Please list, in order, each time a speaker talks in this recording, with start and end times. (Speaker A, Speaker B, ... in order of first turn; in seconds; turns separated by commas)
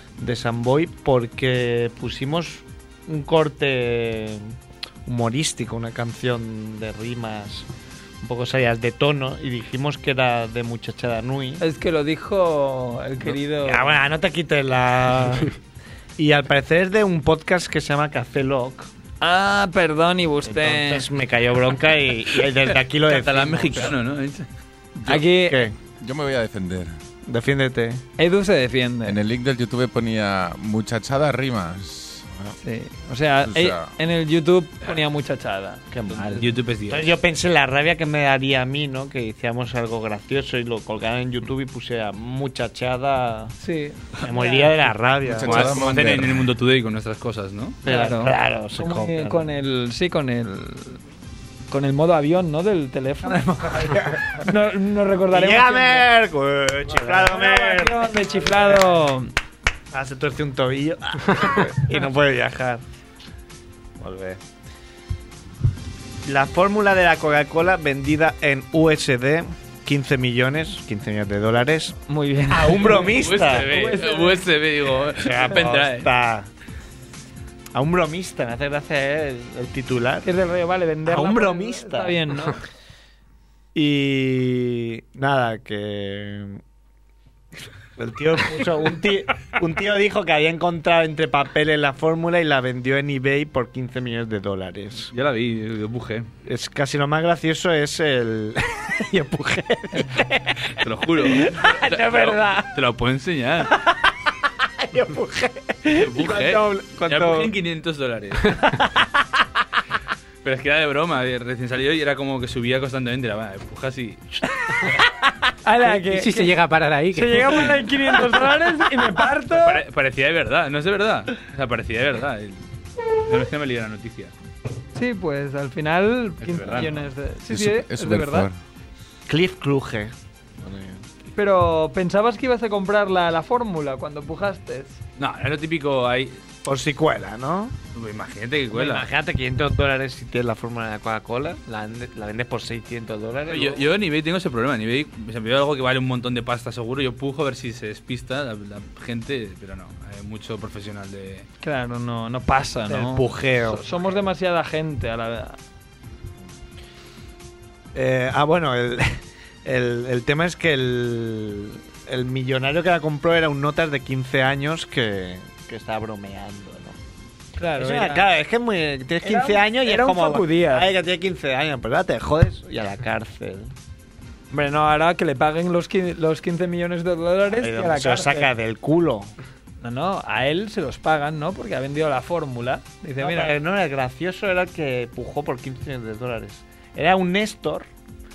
Speaker A: 0.2-4.5, Speaker A: 5.1-7.7, Speaker A: 8.2-11.6, Speaker B: 11.6-13.9, Speaker A: 13.2-15.6, Speaker A: 16.2-18.9, Speaker B: 19.2-21.1, Speaker A: 20.4-23.9, Speaker C: 23.1-24.5, Speaker B: 25.1-25.6, Speaker A: 25.1-25.8, Speaker D: 26.0-26.9, Speaker A: 27.3-28.0, Speaker B: 28.2-29.2, Speaker D: 29.1-32.3, Speaker B: 32.6-35.8, Speaker D: 33.4-33.9, Speaker A: 35.9-43.5, Speaker C: 36.1-37.1, Speaker B: 43.6-44.7, Speaker A: 44.2-45.7, Speaker D: 45.2-46.5, Speaker C: 45.4-47.8, Speaker A: 47.8-49.4, Speaker B: 47.9-51.0, Speaker B: 51.7-56.1, Speaker A: 53.3-54.5, Speaker A: 55.3-58.8, Speaker B: 56.9-59.3, Speaker A: 59.9-62.8, Speaker A: 64.0-64.4, Speaker A: 66.2-72.0, Speaker B: 72.1-74.5, Speaker A: 72.5-73.9, Speaker C: 72.8-76.1, Speaker A: 75.2-76.5, Speaker A: 77.7-80.3, Speaker B: 80.2-82.6, Speaker A: 81.1-82.2, Speaker A: 83.8-86.6, Speaker A: 88.0-95.1, Speaker C: 95.1-96.3, Speaker A: 96.5-102.7, Speaker C: 100.7-103.8, Speaker A: 103.6-104.0, Speaker A: 104.7-107.5, Speaker C: 106.0-108.8, Speaker A: 108.6-109.1, Speaker C: 110.4-114.4, Speaker A: 114.7-115.3, Speaker B: 115.7-116.5, Speaker E: 115.8-117.8, Speaker B: 117.1-119.8, Speaker C: 119.5-122.6, Speaker C: 123.2-124.3, Speaker B: 125.0-128.5, Speaker C: 126.4-127.0, Speaker D: 127.5-128.5, Speaker A: 129.3-131.0, Speaker B: 131.3-135.0, Speaker C: 135.2-136.4, Speaker A: 136.7-137.8, Speaker C: 137.9-139.1, Speaker A: 138.7-143.8, Speaker C: 143.5-151.5, Speaker B: 151.6-155.6, Speaker A: 152.9-153.9, Speaker A: 157.9-167.0, Speaker B: 167.6-168.3, Speaker A: 167.8-173.7, Speaker B: 169.2-170.9, Speaker B: 174.5-178.5, Speaker A: 177.5-179.3, Speaker B: 179.8-183.5, Speaker A: 183.2-187.9